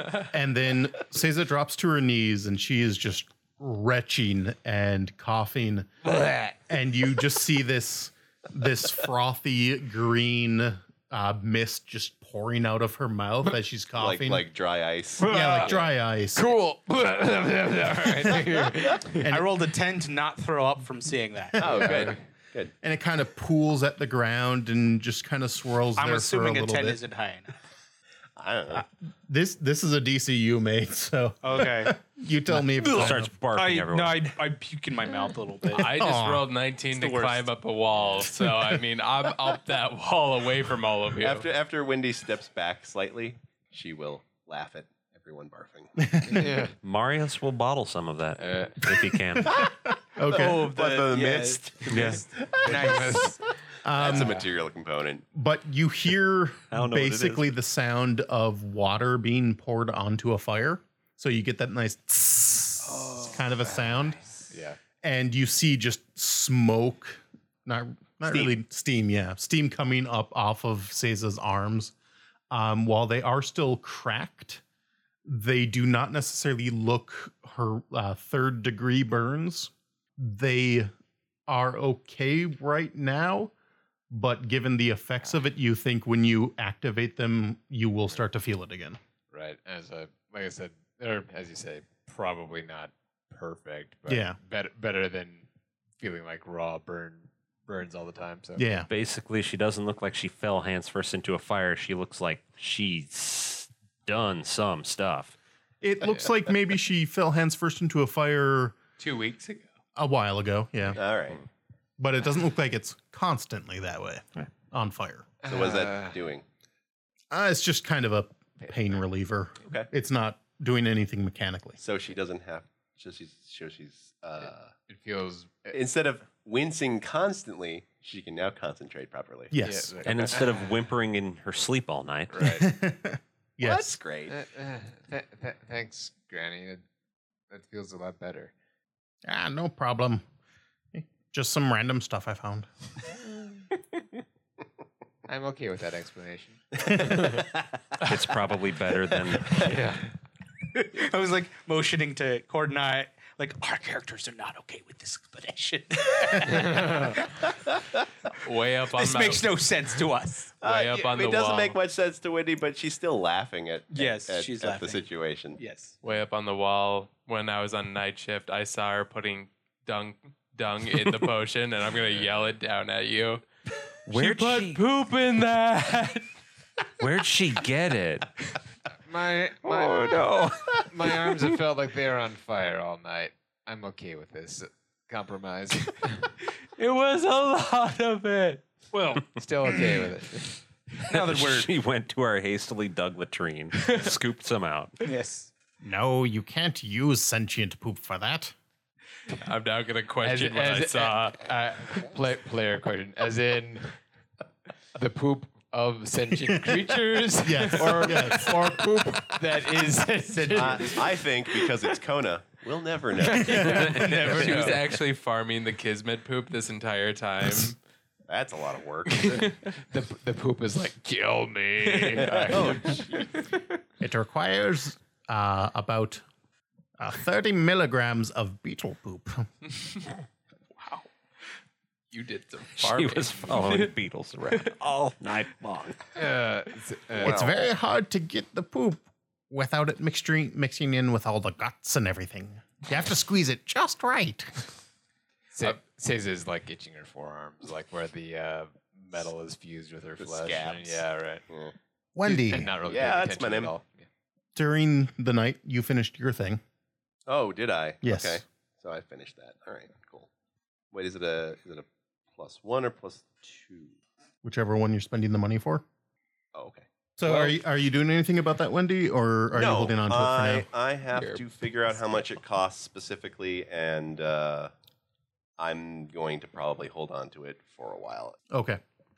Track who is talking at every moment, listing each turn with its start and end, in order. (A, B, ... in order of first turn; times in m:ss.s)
0:00.3-0:05.9 A
0:06.0-0:06.6 B
0:06.7-0:14.4 A
0:14.0-0:15.7 C
0:15.2-0:19.3 B
0:15.2-0:16.5 A
0:19.0-0:19.5 A
0:19.3-0:21.6 D
0:21.5-0:22.2 A
0:21.6-0:22.7 C
0:21.8-0:22.2 B
0:22.8-0:27.0 A
0:26.0-0:27.5 D
0:28.4-0:28.8 C
0:28.7-0:33.3 A
0:31.4-0:32.0 D
0:32.8-0:34.3 E
0:33.5-0:35.9 D
0:35.7-0:41.5 F
0:35.8-0:36.5 A
0:37.0-0:37.4 D
0:41.2-0:46.1 C
0:46.0-0:46.5 A
0:46.3-0:46.7 B
0:46.8-0:49.6 E
0:48.4-0:49.0 B
0:50.1-0:50.7 A
0:50.2-0:53.2 C
0:50.3-0:53.4 D
0:51.9-0:52.2 E
0:52.6-0:53.4 B
0:53.8-0:54.4 A
0:54.0-0:55.2 C
0:54.0-0:54.4 B
0:55.3-1:04.3 A
0:56.7-0:57.5 E
1:03.1-1:04.8 B
1:05.0-1:11.9 A
1:08.2-1:08.5 C
1:12.5-1:14.6 A
1:15.2-1:20.9 A
1:21.5-1:23.5 A
1:24.1-1:29.0 A
1:29.3-1:35.4 B
1:34.1-1:34.4 A
1:36.0-1:38.7 B
1:38.6-1:38.9 A
1:38.9-1:45.3 E
1:45.8-1:48.8 A
1:49.0-1:49.6 F
1:50.0-1:51.0 A
1:51.0-1:51.4 C
1:52.0-1:55.3 A
1:55.4-1:56.2 B
1:55.4-1:56.4 C
1:57.3-2:01.8 A
2:01.8-2:04.7 C
2:04.9-2:05.8 B
2:05.7-2:09.6 C
2:09.5-2:09.9 A
2:09.6-2:10.8 B
2:10.0-2:12.5 E
2:12.3-2:12.7 B
2:12.4-2:13.9 A
2:13.6-2:14.4 C
2:14.3-2:16.8 B
2:17.5-2:18.5 B
2:19.2-2:20.2 A
2:20.9-2:22.7 A
2:25.3-2:26.6 B
2:28.0-2:29.7 E
2:29.6-2:30.1 B
2:30.9-2:37.4 D
2:38.4-2:39.5 F
2:38.9-2:40.5 D
2:40.6-2:45.6 C
2:40.6-2:41.8 F
2:43.9-2:45.0 D
2:45.6-2:45.9 D
2:46.0-2:53.4 F
2:54.1-2:54.8 E
2:54.1-2:56.3 F
2:57.0-2:58.3 E
2:59.1-3:00.3 B
2:59.6-3:00.9 E
3:00.8-3:06.2 B
3:06.8-3:08.6 F
3:08.9-3:10.0 D
3:09.4-3:10.6 B
3:11.0-3:11.7 D
3:11.0-3:14.9 E
3:13.8-3:14.1 F
3:15.0-3:15.5 D
3:15.8-3:18.5 A
3:19.3-3:22.0 F
3:20.2-3:24.0 B
3:25.0-3:31.2 B
3:26.3-3:28.8 A
3:27.7-3:28.1 F
3:30.3-3:31.0 D
3:30.5-3:34.7 C
3:33.4-3:37.8 F
3:33.5-3:34.0 B
3:33.6-3:34.7 E
3:34.4-3:34.7 D
3:38.3-3:39.6 C
3:39.1-3:39.6 F
3:39.7-3:43.5 B
3:41.8-3:43.0 F
3:42.2-3:43.3 C
3:44.0-3:46.2 A
3:47.0-3:49.5 A
3:52.1-3:53.9 F
3:52.8-3:56.0 E
3:56.2-3:57.5 B
3:57.2-3:57.6 C
3:57.2-4:04.7 A
4:05.5-4:11.4 B
4:10.2-4:11.7 C
4:12.1-4:12.7 A
4:12.2-4:14.1 B
4:12.8-4:13.7 C
4:14.5-4:16.6 A
4:17.3-4:20.3 C
4:18.0-4:18.4 A
4:20.9-4:23.9 C
4:24.4-4:25.8 A
4:26.5-4:26.8 C
4:27.2-4:30.7 A
4:29.5-4:34.7 C
4:31.1-4:31.4 F
4:35.6-4:38.4 C
4:38.5-4:38.8 A